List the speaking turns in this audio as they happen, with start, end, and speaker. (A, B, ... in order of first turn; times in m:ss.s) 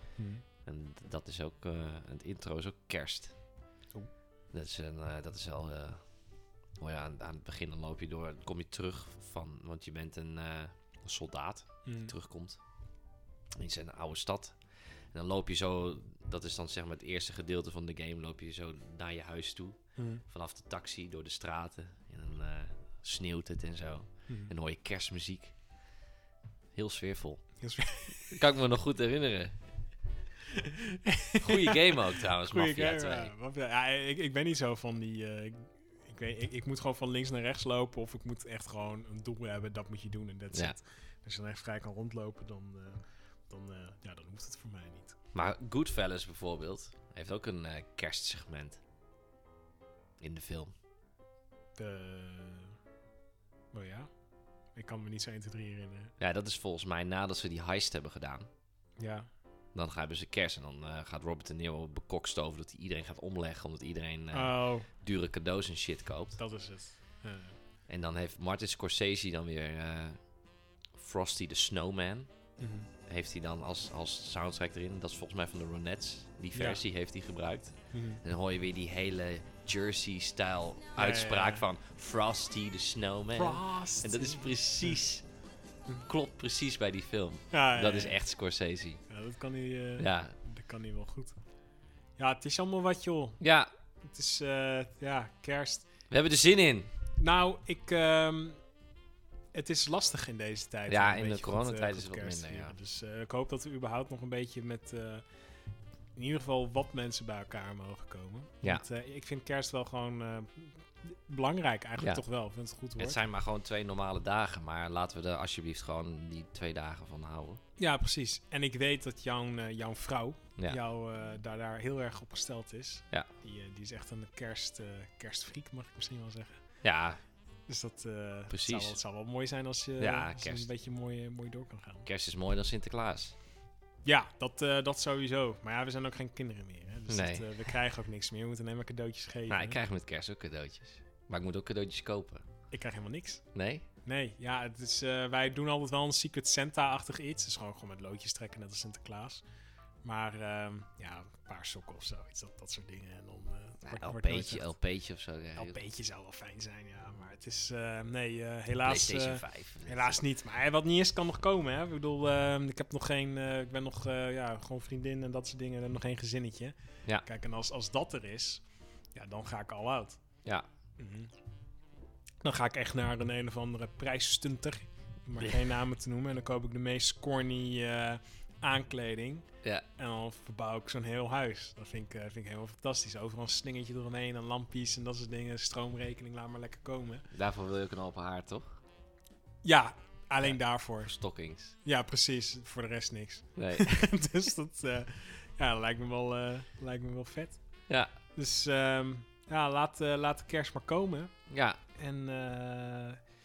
0:00.2-0:00.4 A
0:00.6-0:03.3 B
0:04.5-0:06.0 B
0:06.8-0:12.6 B
0:11.8-0:12.1 A
0:13.6-0:14.6 B
0:15.1-0:25.5 B
0:20.0-0:20.2 A
0:24.3-0:24.5 A
0:26.7-0:27.4 B
0:27.6-0:28.4 A
0:28.2-0:29.5 B
0:30.5-0:45.2 A
0:31.4-0:33.3 B
0:45.3-0:48.8 B
0:50.2-0:50.7 B
0:51.8-0:52.8 A
0:53.7-0:54.1 A
0:54.7-0:56.1 A
0:56.2-0:58.5 B
0:59.0-0:59.3 A
0:59.7-1:06.4 B
1:04.3-1:04.9 A
1:06.4-1:07.6 A
1:07.9-1:10.2 B
1:10.9-1:12.3 B
1:12.6-1:12.9 A
1:13.1-1:25.2 B
1:16.5-1:16.8 A
1:17.9-1:18.2 A
1:21.0-1:21.6 A
1:23.3-1:25.0 A
1:25.9-1:29.0 B
1:27.5-1:28.2 A
1:29.1-1:31.4 A
1:30.0-1:30.3 B
1:32.2-1:33.4 A
1:33.4-1:33.7 B
1:34.0-1:35.9 A
1:36.1-1:36.9 B
1:37.2-1:38.6 A
1:39.5-1:45.2 A
1:40.9-1:42.8 B
1:46.2-1:53.2 A
1:53.0-1:57.6 B
1:57.8-2:06.6 A
2:06.8-2:07.2 B
2:07.7-2:12.0 A
2:08.5-2:09.0 B
2:10.0-2:10.7 B
2:12.0-2:13.3 B
2:14.0-2:19.8 A
2:17.1-2:17.6 B
2:19.5-2:22.4 B
2:22.7-2:23.4 A
2:23.5-2:23.8 B
2:24.0-2:29.4 A
2:30.0-2:34.7 A
2:33.8-2:35.8 B
2:35.6-2:48.6 A
2:38.8-2:40.2 B
2:49.1-2:50.2 A
2:51.0-2:51.3 A
2:52.4-2:59.4 A
3:00.0-3:07.2 A
3:07.3-3:08.8 B
3:09.6-3:11.1 A
3:10.4-3:11.7 B
3:11.8-3:17.6 A
3:13.6-3:14.1 B
3:18.3-3:21.3 A
3:21.5-3:21.8 B
3:22.0-3:23.2 A